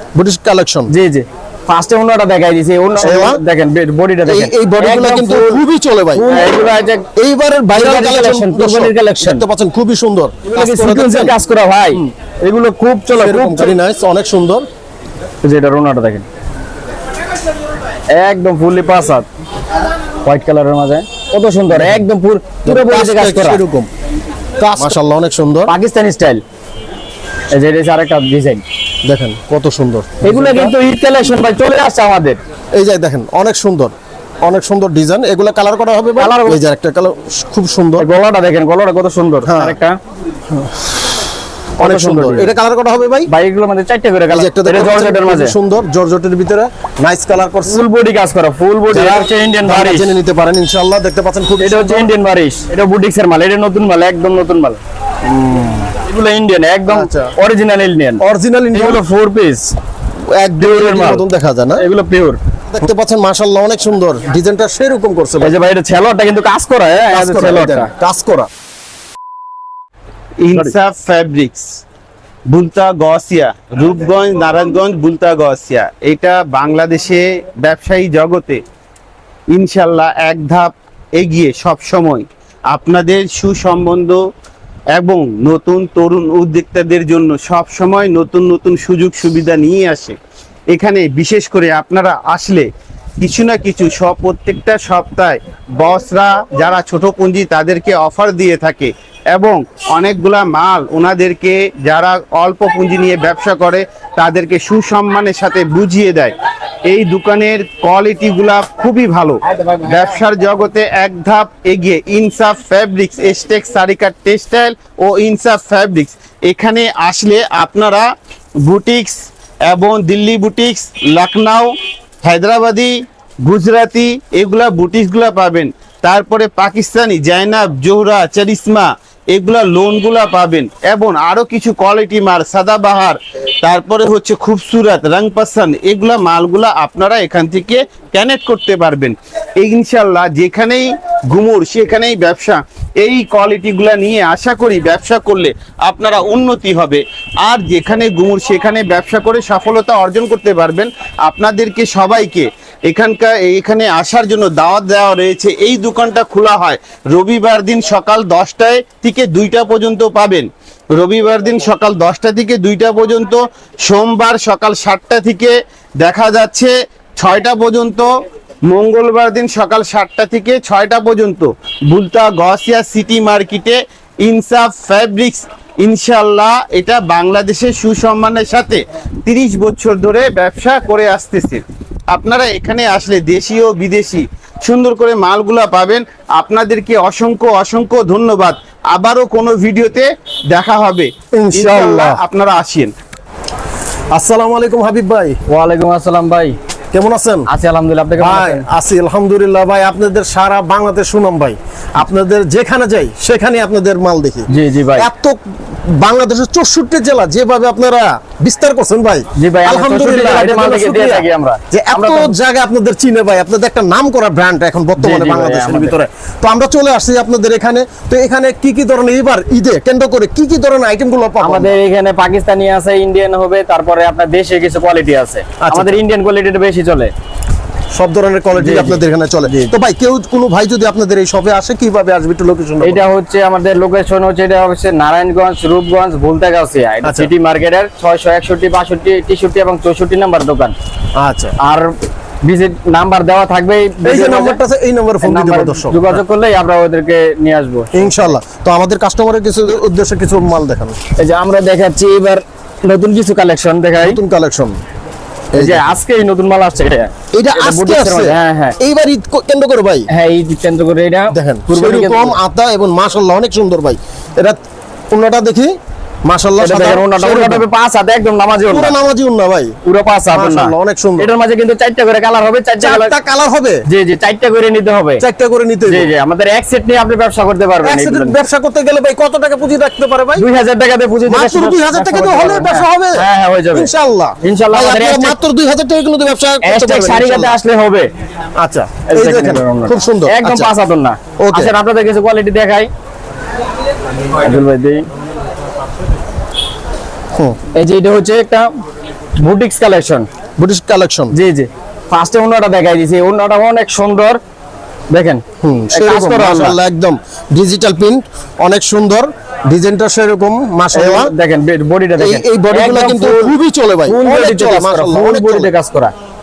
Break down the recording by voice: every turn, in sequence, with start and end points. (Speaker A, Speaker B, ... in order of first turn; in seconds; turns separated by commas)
Speaker A: 0.1-0.9, Speaker B: 0.9-5.6, Speaker A: 3.0-3.4, Speaker A: 4.2-6.5, Speaker B: 6.2-7.0, Speaker A: 7.1-11.4, Speaker B: 7.7-9.4, Speaker B: 10.5-13.8, Speaker A: 13.1-14.7, Speaker B: 15.4-16.2, Speaker B: 18.1-19.2, Speaker B: 20.2-23.6, Speaker A: 22.6-23.9, Speaker A: 24.6-25.7, Speaker B: 25.7-26.4, Speaker B: 27.5-28.6, Speaker A: 29.0-30.8, Speaker B: 30.2-32.4, Speaker A: 32.7-38.0, Speaker B: 36.2-36.6, Speaker B: 38.0-40.0, Speaker A: 39.5-39.8, Speaker B: 41.8-42.5, Speaker A: 41.8-43.3, Speaker B: 43.3-45.5, Speaker A: 44.3-47.8, Speaker B: 47.7-50.1, Speaker A: 48.9-52.1, Speaker B: 51.6-54.8, Speaker A: 55.3-55.9, Speaker B: 56.0-58.2, Speaker A: 56.9-57.3, Speaker A: 58.2-59.0, Speaker B: 58.7-59.7, Speaker A: 60.2-61.8, Speaker B: 60.6-61.2, Speaker B: 61.8-62.4, Speaker A: 62.7-65.5, Speaker B: 65.4-67.9, Speaker A: 67.1-68.5, Speaker C: 70.4-71.8, Speaker C: 72.5-78.6, Speaker C: 79.5-84.2, Speaker C: 84.9-90.2, Speaker C: 90.7-92.7, Speaker C: 93.2-106.3, Speaker C: 106.9-118.1, Speaker C: 118.6-168.1, Speaker C: 168.7-192.9, Speaker A: 191.3-192.2, Speaker A: 194.1-195.4, Speaker B: 195.5-196.6, Speaker A: 196.9-197.5, Speaker B: 197.5-198.7, Speaker A: 198.2-221.7, Speaker B: 204.5-205.1, Speaker B: 209.3-212.3, Speaker B: 215.0-215.9, Speaker B: 221.4-227.1, Speaker A: 225.6-226.0, Speaker A: 227.9-233.0, Speaker B: 228.6-229.7, Speaker B: 232.8-240.7, Speaker A: 237.0-237.3, Speaker A: 241.2-241.6, Speaker B: 241.6-244.6, Speaker A: 244.0-246.2, Speaker B: 245.2-248.3, Speaker A: 247.9-251.0, Speaker B: 251.2-254.2, Speaker A: 254.0-254.8, Speaker A: 255.5-255.9, Speaker B: 255.5-258.8, Speaker A: 257.3-260.1, Speaker B: 260.1-262.3, Speaker A: 261.3-264.6, Speaker A: 265.1-265.7, Speaker A: 266.2-267.7, Speaker B: 266.6-268.9, Speaker A: 268.7-269.7, Speaker B: 269.8-273.1, Speaker A: 270.3-271.3, Speaker A: 272.8-273.8, Speaker B: 273.9-275.2, Speaker A: 275.2-276.1, Speaker B: 275.9-278.4, Speaker A: 277.8-280.5, Speaker B: 280.4-285.4, Speaker A: 281.3-287.6, Speaker B: 286.6-288.1, Speaker A: 288.6-290.7, Speaker B: 289.1-292.9, Speaker A: 291.4-291.7, Speaker B: 294.4-295.0, Speaker B: 297.8-298.7, Speaker B: 299.4-300.3, Speaker A: 300.6-301.3, Speaker B: 301.3-304.4, Speaker B: 305.1-305.4, Speaker A: 305.6-311.3, Speaker B: 305.9-306.8, Speaker B: 310.9-313.5, Speaker A: 312.2-315.7, Speaker B: 314.1-316.1